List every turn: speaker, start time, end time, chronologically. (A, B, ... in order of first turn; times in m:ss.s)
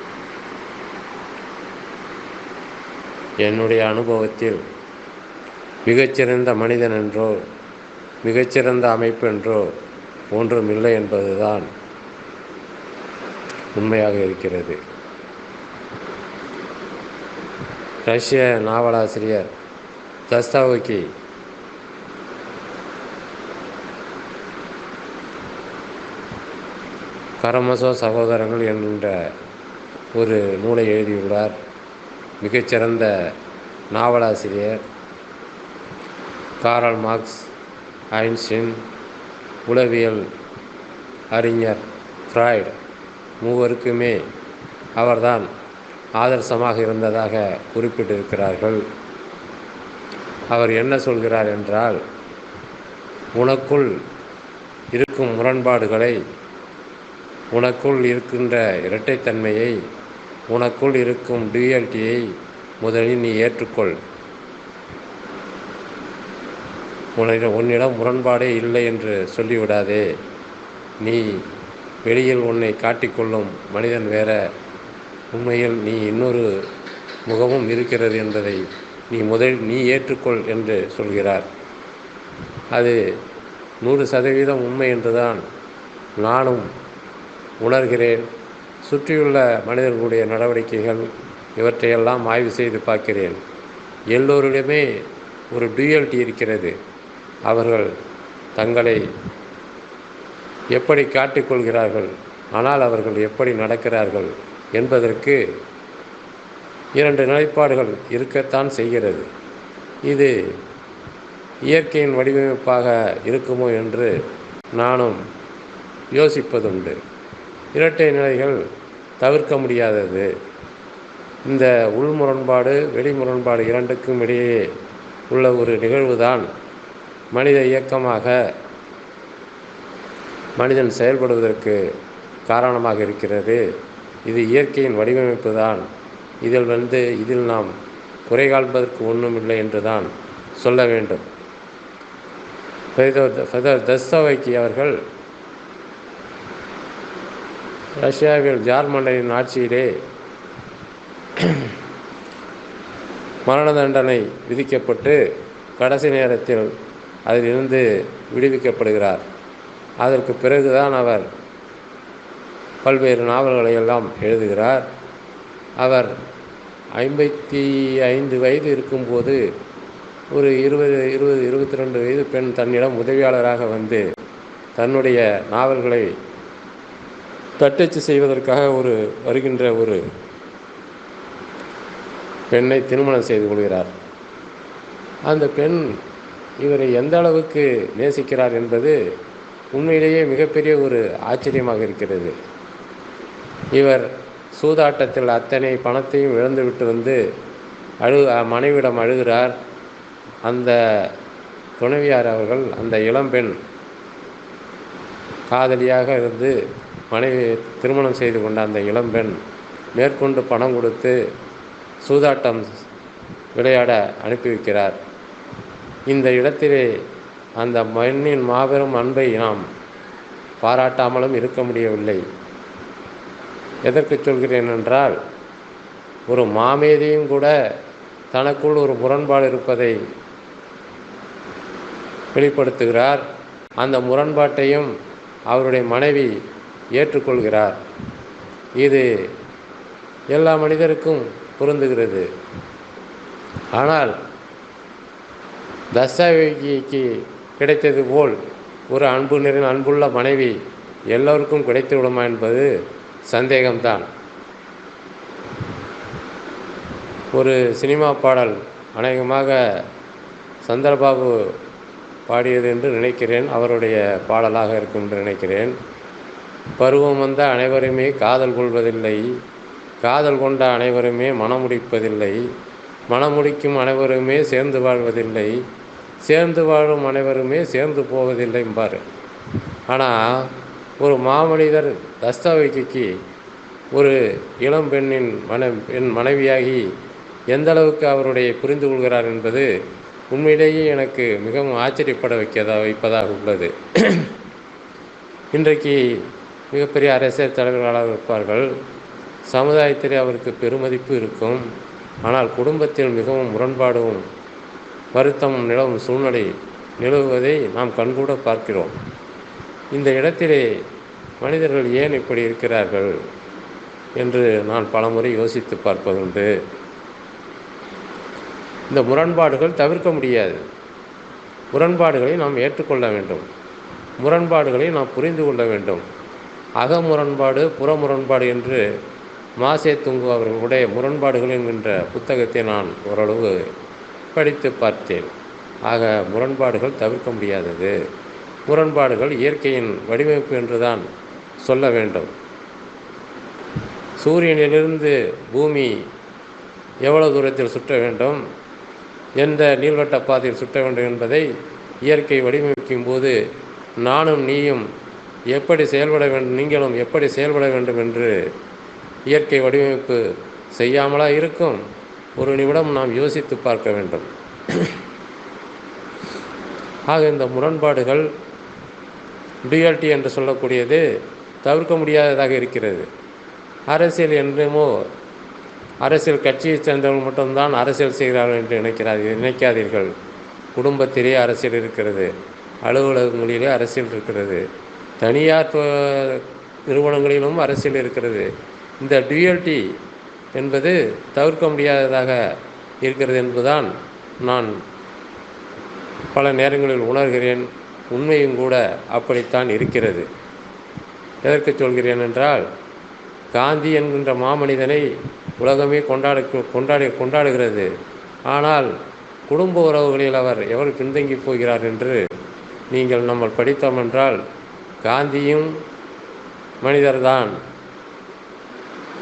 0:03.4-0:04.6 A
0:05.8-0:07.4 A
0:08.2-0:09.7 A
0:10.3-0:11.7 A
0:13.7-0:14.8 A
0:18.0-0:19.5 A
0:20.3-0:21.1 A
0:27.4-0:29.2 A
0:30.1-0:31.5 A
0:32.4-0:33.1 A
0:33.9-0:34.8 A
0:36.6-0:37.5 A
0:38.1-0:38.8 A
0:39.6-0:40.3 A
0:41.3-0:42.7 A
0:43.4-0:44.2 A
0:45.0-0:45.5 A
0:46.2-0:48.8 A
0:50.5-0:52.0 A
0:53.4-0:53.9 A
0:54.9-0:56.2 A
0:57.5-0:59.8 A
1:00.5-1:04.0 A
1:07.2-1:10.1 A
1:11.0-1:11.4 A
1:12.0-1:14.4 A
1:15.3-1:16.5 A
1:17.3-1:21.4 A
1:22.7-1:23.0 A
1:23.8-1:25.4 A
1:26.2-1:26.7 A
1:27.6-1:28.3 A
1:28.8-1:33.4 A
1:34.1-1:35.0 A
1:35.5-1:36.7 A
1:37.5-1:37.9 A
1:38.6-1:39.0 A
1:40.7-1:45.4 A
1:46.9-1:49.3 A
1:50.0-1:50.4 A
1:51.7-1:54.1 A
1:54.7-1:55.2 A
1:56.1-1:57.0 A
1:57.7-1:58.6 A
1:59.2-2:00.3 A
2:01.4-2:04.7 A
2:05.3-2:06.5 A
2:07.3-2:08.4 A
2:10.6-2:11.8 A
2:12.4-2:13.6 A
2:14.2-2:15.8 A
2:16.4-2:17.7 A
2:18.3-2:21.2 A
2:23.0-2:25.0 A
2:28.0-2:29.9 A
2:31.4-2:31.7 A
2:33.4-2:35.2 A
2:35.8-2:36.7 A
2:37.2-2:39.2 A
2:40.0-2:41.3 A
2:42.8-2:44.8 A
2:45.8-2:46.1 A
2:47.0-2:49.4 A
2:50.3-2:54.0 A
2:54.8-2:56.1 A
2:57.6-3:00.0 A
3:02.5-3:03.9 A
3:05.3-3:05.9 A
3:06.6-3:09.0 A
3:09.7-3:12.3 A
3:13.7-3:17.2 A
3:18.0-3:19.5 A
3:20.4-3:21.1 A
3:21.8-3:23.6 A
3:25.5-3:26.5 A
3:27.1-3:29.4 A
3:29.9-3:31.2 A
3:32.0-3:32.6 A
3:33.5-3:35.0 A
3:36.1-3:36.9 A
3:37.6-3:39.6 A
3:40.6-3:42.2 A
3:43.8-3:45.2 A
3:46.3-3:47.5 A
3:48.3-3:50.0 A
3:52.3-3:53.2 A
3:53.8-3:54.9 A
3:55.5-3:56.4 A
3:56.9-3:57.8 A
3:58.8-3:59.1 A
4:00.3-4:02.3 A
4:03.7-4:04.2 A
4:05.9-4:08.4 A
4:08.9-4:10.6 A
4:11.1-4:12.7 A
4:13.3-4:14.1 A
4:17.3-4:19.8 A
4:20.6-4:21.5 A
4:22.3-4:25.7 A
4:26.8-4:29.3 A
4:30.0-4:32.4 A
4:33.1-4:35.6 A
4:36.2-4:39.0 A
4:39.9-4:43.1 A
4:43.9-4:46.9 A
4:47.5-4:49.7 A
4:50.3-4:54.3 A
4:55.5-4:58.7 A
4:59.5-5:01.6 A
5:02.2-5:04.2 A
5:05.1-5:08.9 A
5:09.9-5:10.7 A
5:11.4-5:13.2 A
5:14.2-5:16.5 A
5:18.9-5:20.6 A
5:21.7-5:23.4 A
5:24.2-5:26.0 A
5:26.8-5:28.8 A
5:29.6-5:33.7 A
5:34.3-5:35.3 A
5:35.8-5:38.0 A
5:38.7-5:41.0 A
5:41.6-5:42.3 A
5:44.2-5:46.0 A
5:47.0-5:48.4 A
5:49.4-5:51.5 A
5:52.0-5:53.4 A
5:54.0-5:54.9 A
5:55.5-5:58.4 A
5:59.3-6:01.8 A
6:02.4-6:04.9 A
6:07.1-6:08.3 A
6:09.6-6:11.0 A
6:11.6-6:13.1 A
6:13.9-6:15.0 A
6:16.0-6:20.1 A
6:20.7-6:22.3 A
6:22.8-6:24.6 A
6:25.2-6:28.5 A
6:29.0-6:29.9 A
6:30.5-6:32.4 A
6:33.0-6:34.7 A
6:36.3-6:40.3 A
6:41.4-6:42.6 A
6:43.5-6:45.1 A
6:45.6-6:47.9 A
6:48.5-6:48.9 A
6:49.5-6:52.2 A
6:52.9-6:54.4 A
6:55.0-6:55.7 A
6:56.8-6:57.5 A